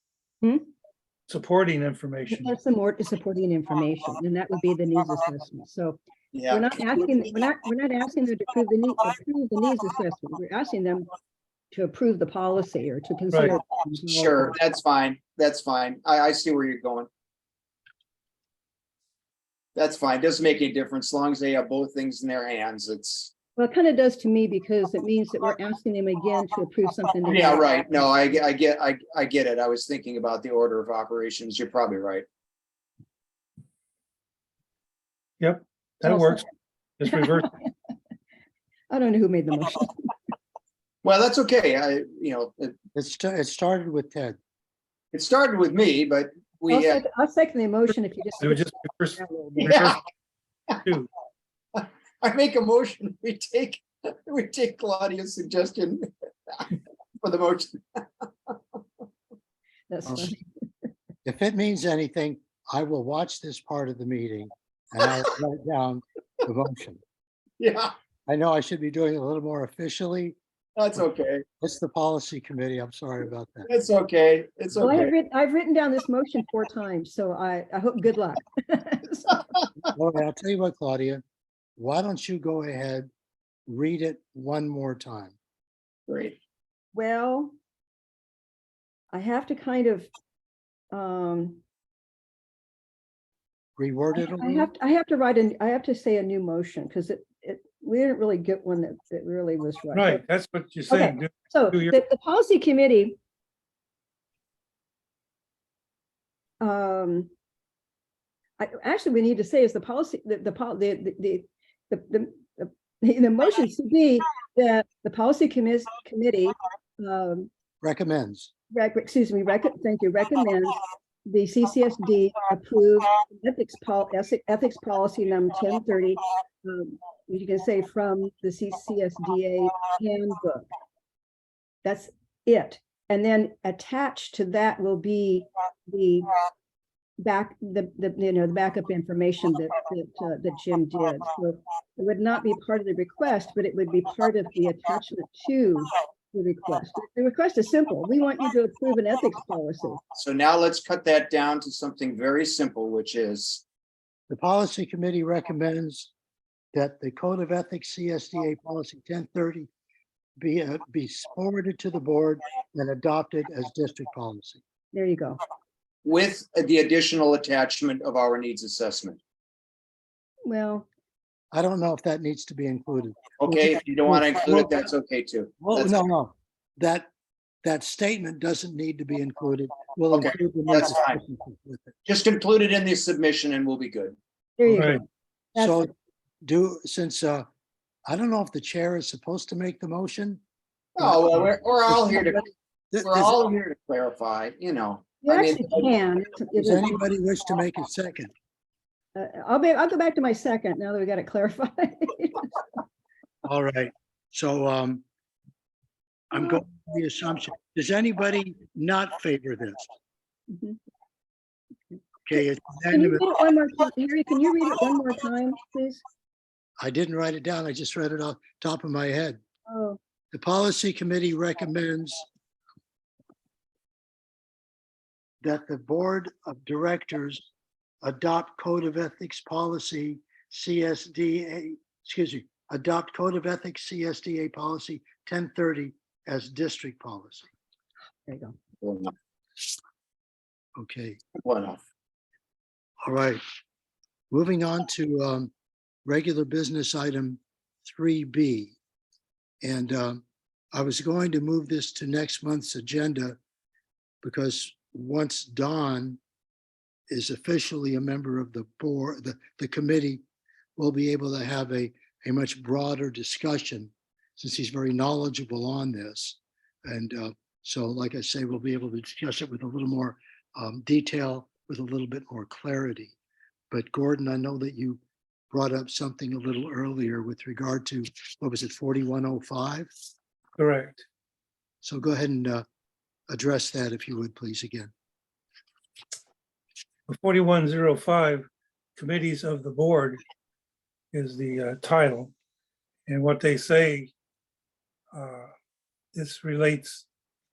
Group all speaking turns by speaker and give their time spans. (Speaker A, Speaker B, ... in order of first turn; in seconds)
Speaker A: 0.4-0.7, 2.3-6.0, 6.5-11.1, 11.7-14.6, 23.6-27.9, 36.0-36.4, 37.0-37.7, 38.9-40.1, 46.7-49.8, 59.9-60.4, 74.8-79.4, 86.9-87.5, 89.1-90.1, 90.9-91.6, 94.2-100.2, 100.9-103.2, 106.6-107.3, 108.6-117.5, 118.7-130.7, 131.8-136.3, 137.2-150.0, 164.9-165.4, 170.4-170.9, 184.6-185.9, 195.2-197.0, 199.1-202.5, 210.5-210.8, 212.9-216.0, 219.7-220.0, 238.2-238.6
Speaker B: 1.3-2.5, 35.4-36.4, 37.0-37.5, 48.4-50.0, 99.9-102.0, 280.6-281.0, 287.1-290.2, 291.1-292.3, 293.1-294.1, 295.1-295.5, 296.1-297.1
Speaker C: 6.3-6.8, 14.1-17.1, 19.7-23.3, 27.2-32.2, 41.0-42.7, 45.1-47.0, 49.6-50.0, 51.7-58.5, 67.6-67.9, 70.8-71.4, 73.7-75.1, 86.1-86.4, 150.1-153.6, 166.0-169.2, 173.4-176.0, 180.1-181.2, 182.1-184.2, 190.9-192.4, 193.0-195.9, 238.8-239.1, 241.4-241.8
Speaker D: 42.9-44.4, 61.2-67.0, 68.3-70.4, 71.6-73.7, 79.9-81.2, 81.8-83.1, 83.7-85.3, 93.8-94.7, 117.8-118.5, 154.3-156.1, 156.7-159.7, 160.4-164.6, 171.5-174.8, 175.6-177.1, 177.6-181.9, 185.5-185.9, 186.4-187.4, 188.1-190.4, 191.0-192.3, 192.9-193.3, 196.6-198.3, 203.4-205.0, 206.3-209.8, 212.2-213.2, 216.8-219.4, 220.3-222.2, 225.4-227.4, 228.0-237.5, 240.8-241.2, 243.0-243.4, 244.3-245.5, 246.0-248.8, 249.6-250.2, 250.7-253.4, 254.2-256.2, 257.1-260.2, 260.8-273.1, 273.7-275.0, 275.5-279.9, 281.8-282.6, 283.3-284.9